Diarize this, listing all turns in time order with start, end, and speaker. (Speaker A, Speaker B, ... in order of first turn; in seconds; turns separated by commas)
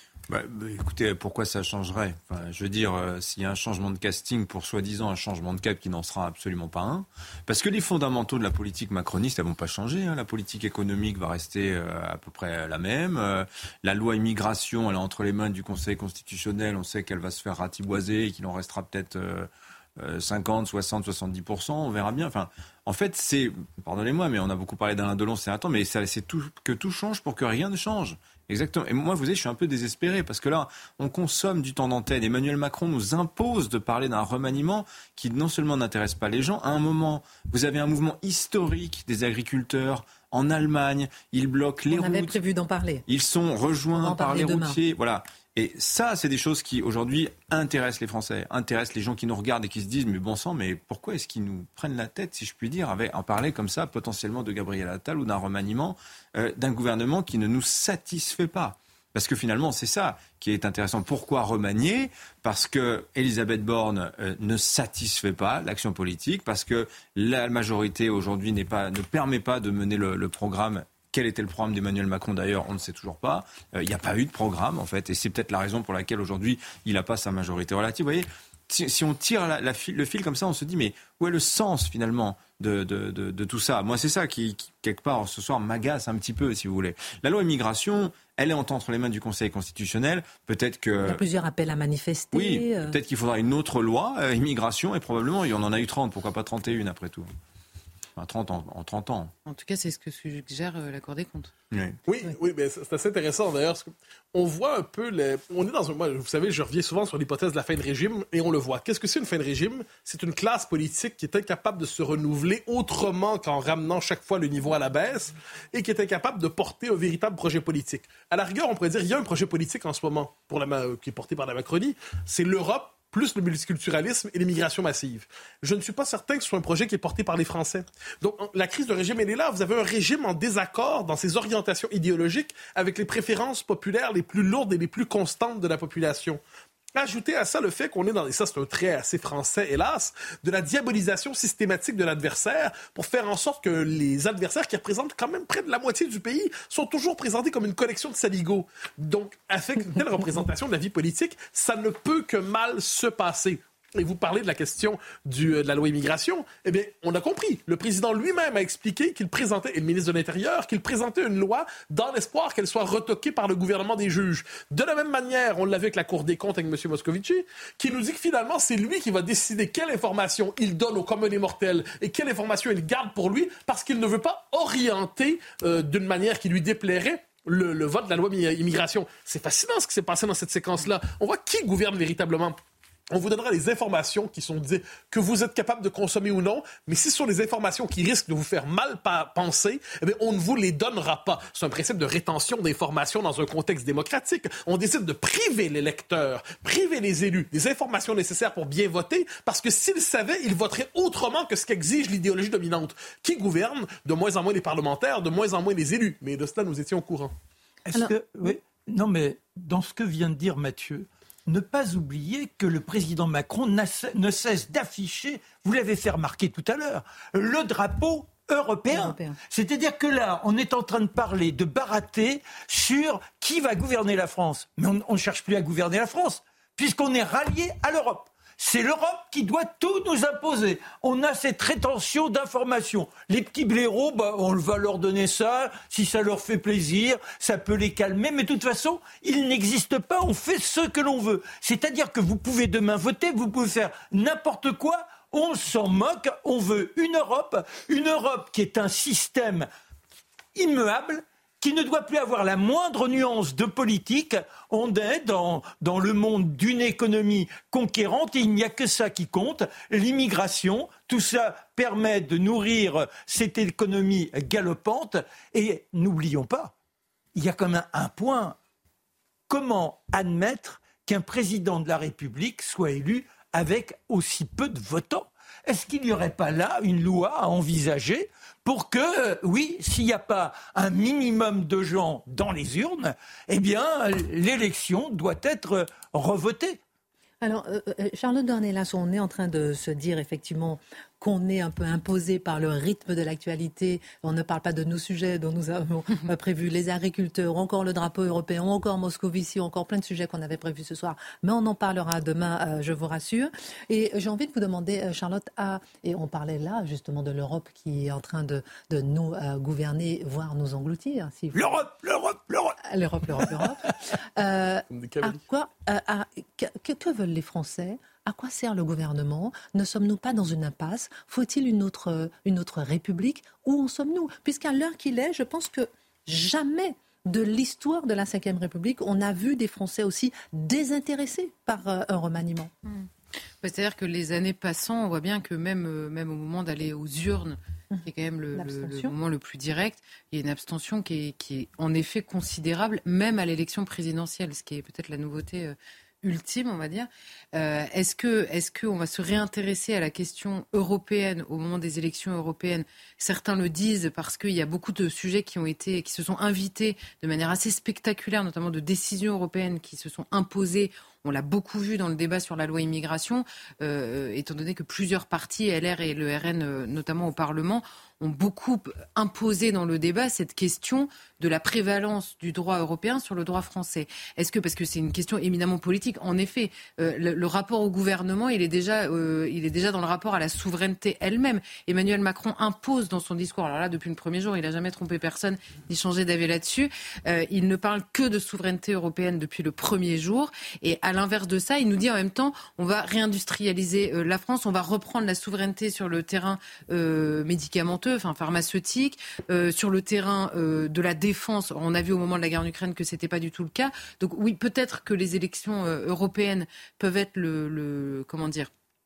Speaker A: 0.3-42.4, Speaker B: 41.9-43.0, Speaker A: 43.1-91.2, Speaker B: 43.9-44.8, Speaker B: 91.0-93.0, Speaker A: 92.3-97.2, Speaker A: 98.2-99.3, Speaker C: 99.5-101.5, Speaker A: 101.7-102.0, Speaker D: 102.1-136.4, Speaker D: 136.9-182.6, Speaker D: 183.1-207.3, Speaker E: 207.8-249.7, Speaker B: 218.9-219.4, Speaker E: 250.5-266.7, Speaker E: 267.3-268.6, Speaker E: 269.5-286.8, Speaker B: 287.4-311.9, Speaker E: 311.5-312.8, Speaker B: 312.9-332.7, Speaker D: 314.9-315.4, Speaker C: 333.6-408.7, Speaker B: 337.9-339.1